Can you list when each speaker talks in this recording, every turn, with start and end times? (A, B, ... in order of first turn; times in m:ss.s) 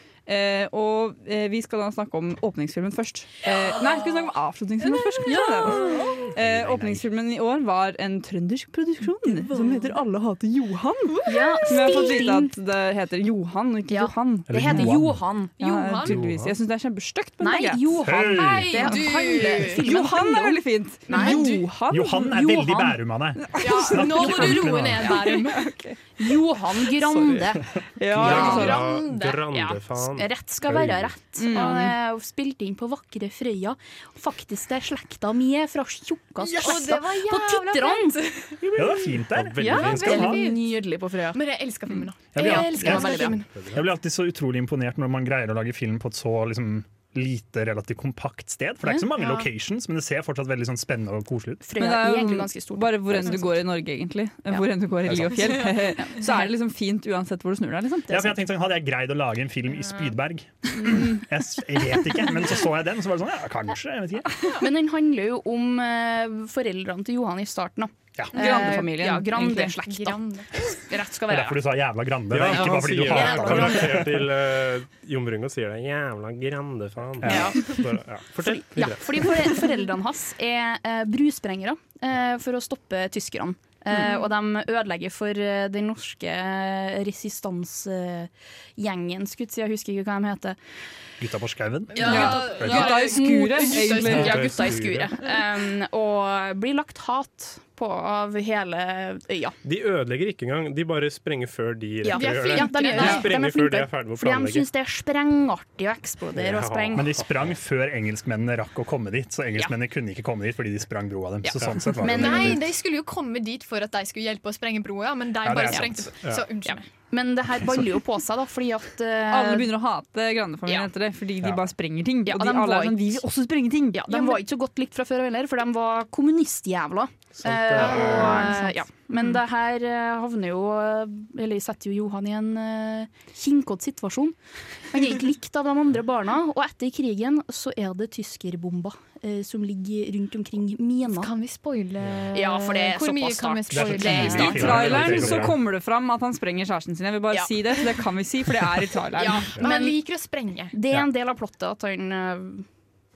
0:00.2-0:14.8 A
0:04.8-0:06.2 B
0:06.4-0:07.0 C
0:11.2-0:12.1 B
0:11.2-0:12.5 D
0:13.9-0:15.6 D
0:14.5-0:15.0 E
0:14.6-0:15.1 C
0:15.6-0:16.2 B
0:15.6-0:17.9 A
0:16.1-0:16.5 E
0:17.4-0:23.0 D
0:18.0-0:19.1 C
0:18.3-0:19.9 B
0:19.6-0:22.4 A
0:21.2-0:21.6 B
0:21.9-0:25.1 C
0:23.6-0:25.7 B
0:23.7-0:25.6 D
0:25.0-0:26.0 A
0:26.2-0:27.7 D
0:28.0-0:28.8 A
0:28.0-0:31.1 E
0:28.2-0:29.5 B
0:28.2-0:28.7 D
0:29.5-0:38.2 D
0:31.4-0:32.0 A
0:36.4-0:36.9 C
0:36.5-0:38.6 B
0:38.7-0:40.4 C
0:39.3-0:40.3 E
0:39.6-0:41.4 D
0:39.6-0:40.8 B
0:41.3-0:43.5 B
0:42.3-0:51.6 C
0:42.4-0:43.4 D
0:43.6-0:43.8 E
0:48.8-0:49.1 D
0:51.6-0:53.6 D
0:51.8-0:58.4 A
0:55.0-0:55.4 C
0:55.4-0:55.8 B
0:58.1-1:04.4 C
1:04.6-1:11.6 D
1:08.3-1:09.8 A
1:08.4-1:08.8 B
1:09.8-1:10.6 B
1:11.3-1:14.3 C
1:12.3-1:19.1 E
1:13.1-1:13.6 B
1:17.2-1:17.6 C
1:17.2-1:17.8 D
1:18.4-1:30.6 D
1:31.2-1:32.9 C
1:31.9-1:34.3 B
1:32.0-1:39.6 D
1:32.0-1:34.5 A
1:34.1-1:35.1 E
1:39.6-1:44.6 E
1:42.0-1:47.2 D
1:42.1-1:43.3 B
1:46.3-1:47.5 E
1:47.0-1:52.6 C
1:51.4-1:52.7 D
1:52.0-1:56.8 B
1:55.4-1:56.1 C
1:56.6-1:59.8 D
1:59.3-2:04.4 A
2:02.2-2:03.2 D
2:03.9-2:14.4 D
2:07.4-2:08.5 E
2:07.9-2:08.5 B
2:08.1-2:08.8 A
2:14.9-2:21.3 D
2:21.1-2:24.8 B
2:22.3-2:25.3 D
2:23.7-2:25.6 C
2:24.2-2:29.5 A
2:24.7-2:25.0 E
2:29.2-2:30.0 D
2:29.2-2:30.8 B
2:30.7-2:32.7 D